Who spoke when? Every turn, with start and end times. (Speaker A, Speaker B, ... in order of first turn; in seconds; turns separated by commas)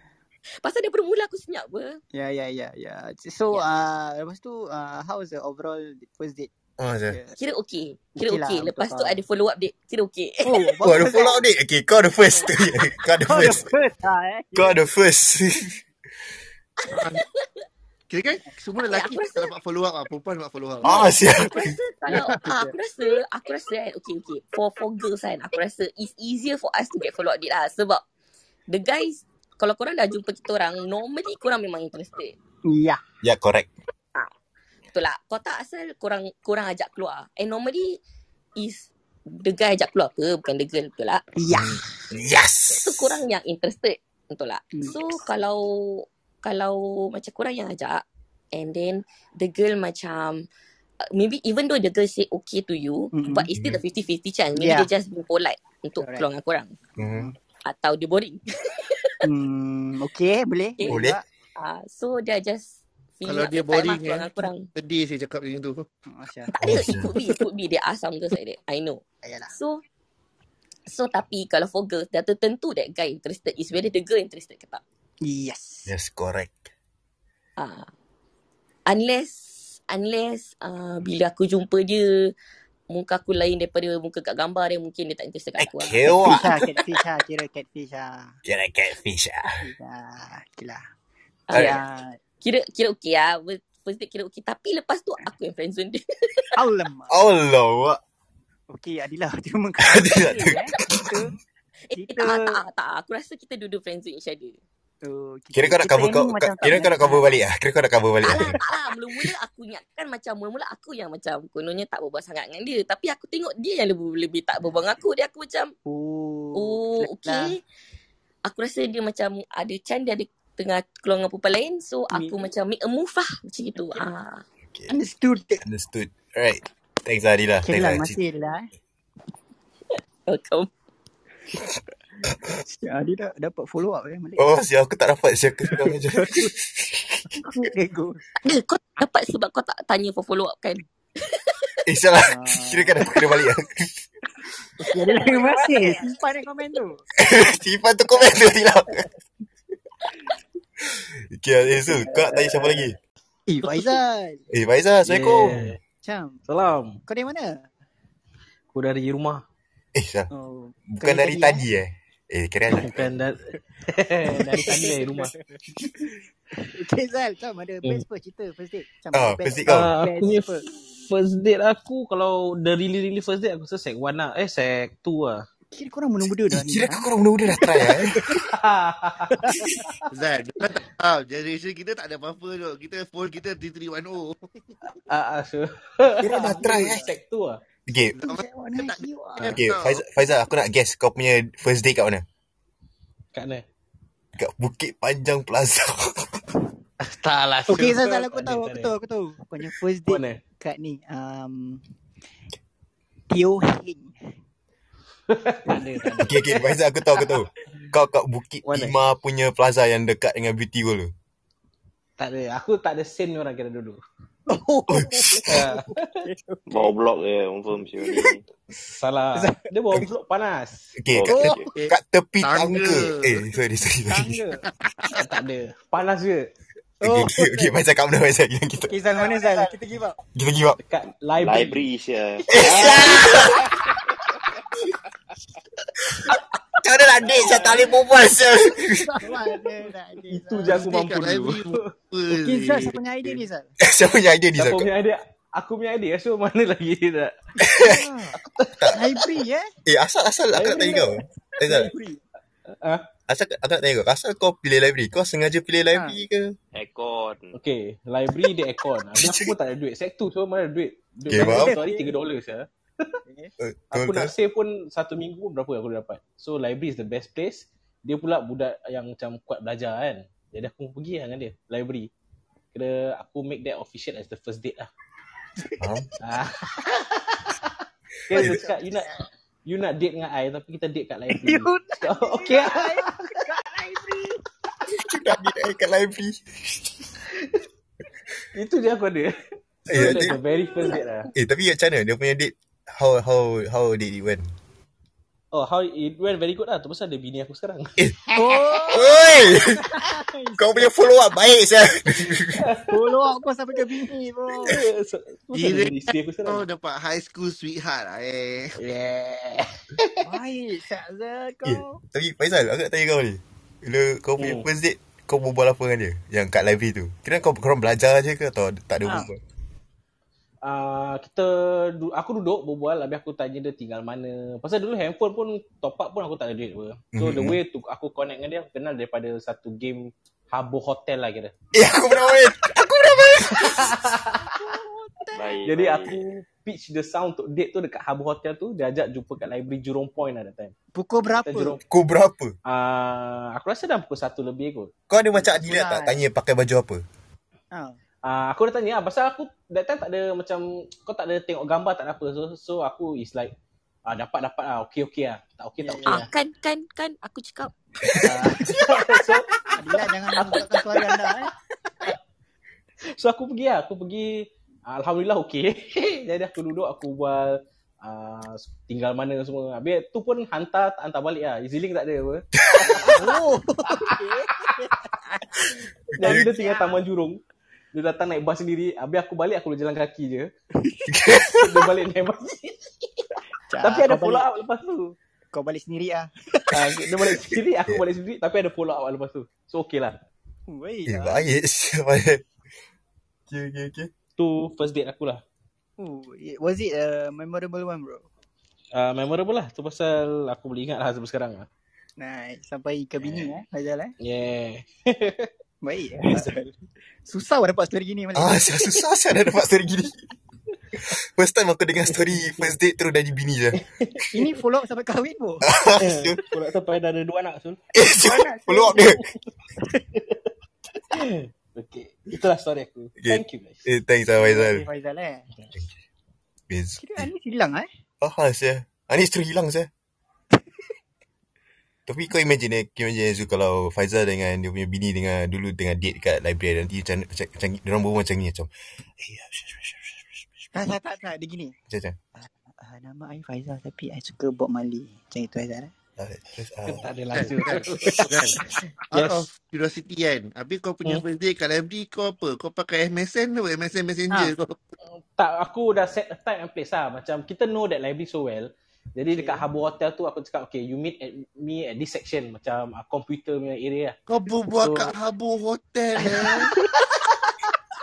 Speaker A: 0.6-2.0, Speaker B: 2.1-6.5, Speaker C: 6.8-7.2, Speaker B: 7.1-7.4, Speaker A: 7.4-11.2, Speaker B: 8.2-9.2, Speaker B: 10.4-11.4, Speaker C: 10.8-13.7, Speaker B: 13.3-14.8, Speaker C: 14.6-15.8, Speaker A: 16.8-17.5, Speaker D: 16.9-17.2, Speaker D: 18.1-21.1, Speaker A: 18.8-19.5, Speaker C: 20.8-21.8, Speaker A: 21.3-28.0, Speaker B: 22.1-22.7, Speaker A: 28.7-32.4, Speaker B: 32.7-33.0, Speaker C: 33.2-33.7, Speaker A: 34.9-38.0, Speaker A: 38.6-41.3, Speaker B: 41.4-41.8, Speaker C: 41.5-43.2, Speaker A: 42.7-50.5, Speaker A: 51.1-56.7, Speaker B: 53.1-53.5, Speaker C: 53.5-53.8, Speaker B: 54.6-54.9, Speaker B: 56.0-56.3, Speaker C: 57.0-57.3, Speaker B: 57.0-57.4, Speaker A: 57.7-59.1, Speaker B: 59.2-61.2, Speaker A: 60.8-64.7, Speaker C: 60.9-61.2, Speaker D: 63.3-65.8, Speaker B: 66.1-66.5, Speaker A: 66.5-69.8, Speaker C: 66.6-67.1, Speaker B: 69.2-69.5, Speaker A: 70.9-74.8, Speaker B: 75.2-75.9, Speaker C: 75.9-76.7, Speaker A: 77.6-77.9, Speaker A: 78.9-82.3, Speaker A: 82.9-86.2, Speaker C: 85.6-86.5, Speaker B: 86.2-88.4, Speaker C: 88.5-89.6, Speaker B: 89.6-90.8, Speaker A: 91.5-91.8, Speaker C: 91.5-91.8, Speaker B: 91.5-92.2, Speaker A: 92.4-96.5, Speaker B: 96.5-97.2, Speaker C: 97.1-98.0, Speaker B: 98.7-101.3, Speaker C: 99.8-101.1, Speaker A: 101.9-104.6, Speaker B: 101.9-102.6, Speaker B: 105.0-107.3, Speaker C: 105.5-108.6, Speaker A: 108.2-115.7, Speaker B: 115.9-117.6, Speaker A: 116.5-117.6, Speaker A: 118.5-124.4, Speaker B: 122.1-122.5, Speaker C: 124.7-124.9, Speaker B: 124.9-125.6, Speaker C: 125.7-128.2, Speaker B: 127.6-128.7, Speaker A: 130.3-130.7, Speaker B: 132.6-134.5, Speaker C: 134.4-137.4, Speaker B: 135.7-136.5, Speaker B: 137.3-138.2, Speaker A: 138.4-141.7, Speaker C: 141.8-144.1, Speaker B: 142.3-143.0, Speaker B: 144.8-147.1, Speaker A: 145.3-145.8, Speaker C: 147.2-149.0, Speaker C: 151.3-153.0, Speaker E: 151.7-152.9, Speaker B: 153.5-154.4, Speaker E: 153.6-153.9, Speaker C: 154.5-155.8, Speaker E: 155.0-155.8, Speaker B: 156.0-156.4, Speaker E: 156.5-157.0, Speaker B: 157.1-157.7, Speaker E: 158.7-159.4, Speaker C: 159.9-160.3, Speaker B: 160.3-161.6, Speaker C: 160.9-163.2, Speaker E: 162.7-165.3, Speaker B: 164.3-165.5, Speaker B: 166.6-170.7, Speaker C: 169.1-169.9, Speaker E: 169.7-175.4, Speaker B: 175.7-177.1, Speaker C: 176.5-178.3, Speaker B: 177.9-178.4, Speaker E: 178.4-179.4, Speaker B: 179.3-179.7, Speaker C: 179.5-179.9, Speaker D: 180.1-184.5, Speaker E: 184.8-187.6, Speaker B: 186.2-187.1, Speaker C: 186.2-187.1, Speaker C: 187.9-188.2, Speaker D: 188.2-190.0, Speaker B: 188.2-189.5, Speaker C: 189.4-192.2, Speaker E: 193.3-193.6, Speaker C: 194.4-196.4, Speaker E: 197.0-198.9, Speaker B: 197.7-201.8, Speaker E: 200.1-200.4, Speaker B: 203.3-204.1, Speaker E: 205.3-207.4, Speaker C: 206.2-211.1, Speaker E: 208.7-209.0, Speaker E: 212.2-214.0, Speaker B: 214.5-216.9, Speaker C: 214.9-215.6, Speaker E: 215.5-216.3, Speaker F: 216.7-218.4, Speaker B: 218.0-218.3, Speaker E: 218.8-220.9, Speaker B: 219.4-219.7, Speaker C: 221.0-224.4, Speaker F: 221.1-221.7, Speaker B: 221.3-221.7, Speaker D: 221.8-223.4, Speaker B: 224.1-224.6, Speaker E: 225.2-226.5, Speaker B: 227.0-227.7, Speaker C: 227.0-228.9, Speaker B: 228.9-230.2, Speaker C: 230.3-230.8, Speaker E: 230.8-231.9, Speaker F: 231.4-233.9, Speaker C: 232.5-233.7, Speaker E: 232.7-233.2, Speaker E: 236.3-236.6, Speaker C: 236.8-239.1, Speaker E: 237.2-237.8, Speaker B: 239.0-240.8, Speaker E: 239.3-239.6, Speaker E: 240.3-241.9, Speaker D: 240.7-243.4, Speaker B: 242.3-243.7, Speaker C: 243.8-244.9, Speaker E: 244.6-247.3, Speaker C: 247.6-248.1, Speaker B: 247.8-248.4, Speaker E: 248.5-248.8, Speaker C: 248.8-249.0, Speaker B: 248.9-249.7, Speaker C: 249.9-251.9, Speaker E: 250.5-251.9, Speaker B: 251.7-252.2, Speaker E: 252.7-253.1, Speaker C: 253.3-256.6, Speaker B: 255.9-256.2, Speaker F: 256.7-257.6, Speaker E: 257.5-263.1, Speaker C: 259.2-259.5, Speaker C: 261.3-261.8, Speaker B: 261.4-262.1, Speaker C: 263.6-264.3, Speaker E: 263.9-272.1, Speaker E: 272.7-274.9, Speaker C: 275.8-276.1, Speaker E: 276.2-277.7, Speaker E: 278.3-279.1, Speaker C: 278.3-278.7, Speaker E: 279.7-283.1, Speaker B: 281.3-284.4, Speaker C: 284.9-286.8, Speaker E: 287.3-287.6, Speaker E: 288.5-289.3, Speaker E: 289.9-291.3, Speaker C: 289.9-290.4, Speaker B: 290.0-290.4, Speaker C: 291.3-294.5, Speaker E: 295.5-298.0, Speaker C: 298.0-299.8, Speaker B: 298.3-300.9, Speaker C: 300.6-302.6, Speaker E: 302.6-303.0, Speaker B: 302.9-304.8, Speaker E: 304.5-306.6, Speaker D: 305.5-308.8, Speaker E: 308.8-310.4, Speaker B: 310.2-312.0, Speaker C: 311.6-319.4, Speaker E: 314.4-314.7, Speaker E: 320.6-331.5, Speaker C: 327.1-327.6, Speaker C: 331.7-334.1, Speaker E: 333.5-334.5, Speaker B: 334.5-335.5, Speaker F: 335.3-336.2, Speaker E: 335.6-340.7, Speaker B: 340.9-341.8, Speaker E: 341.4-341.8, Speaker C: 341.9-342.5, Speaker E: 342.7-344.9, Speaker C: 345.1-347.0, Speaker B: 345.4-346.2, Speaker B: 347.7-348.0, Speaker E: 348.2-353.5, Speaker E: 354.1-356.3, Speaker B: 355.8-356.2, Speaker A: 356.1-357.7, Speaker C: 358.1-358.3, Speaker E: 358.2-359.5, Speaker B: 359.7-361.5, Speaker E: 360.0-361.5, Speaker E: 363.2-375.0, Speaker C: 372.6-373.2, Speaker B: 373.0-375.7, Speaker C: 376.1-376.6, Speaker E: 376.2-377.4, Speaker B: 376.2-376.9, Speaker E: 377.9-380.5, Speaker C: 381.1-381.8, Speaker E: 381.6-385.1, Speaker B: 383.7-384.5, Speaker B: 385.5-386.8, Speaker E: 386.7-390.2, Speaker C: 387.5-388.0, Speaker B: 390.7-391.4, Speaker C: 391.1-392.4, Speaker C: 393.5-394.1, Speaker E: 394.4-395.4, Speaker B: 396.0-398.3, Speaker E: 398.9-401.7, Speaker B: 402.2-404.1, Speaker E: 403.2-403.5, Speaker E: 404.2-405.5, Speaker B: 405.8-406.6, Speaker E: 406.2-406.7, Speaker B: 407.2-408.7, Speaker C: 408.4-410.2, Speaker C: 410.9-413.8, Speaker E: 412.1-412.8, Speaker E: 413.7-414.2, Speaker B: 414.3-415.7, Speaker C: 415.6-416.4, Speaker E: 416.0-417.8, Speaker C: 417.9-419.2, Speaker B: 418.2-419.0, Speaker E: 418.7-419.3, Speaker E: 419.8-420.5, Speaker E: 421.1-423.8, Speaker C: 423.2-424.9, Speaker B: 424.4-425.5, Speaker C: 426.7-427.3, Speaker B: 427.0-427.9, Speaker C: 428.2-429.9, Speaker C: 432.1-440.7, Speaker B: 440.7-441.8, Speaker C: 441.9-442.2, Speaker B: 442.4-445.9, Speaker C: 446.2-447.1, Speaker E: 446.9-448.6, Speaker D: 447.3-454.8, Speaker C: 448.2-448.6, Speaker E: 449.1-449.5, Speaker E: 455.4-464.2, Speaker B: 459.3-459.7, Speaker D: 464.3-466.7, Speaker E: 464.8-465.2, Speaker E: 466.2-467.6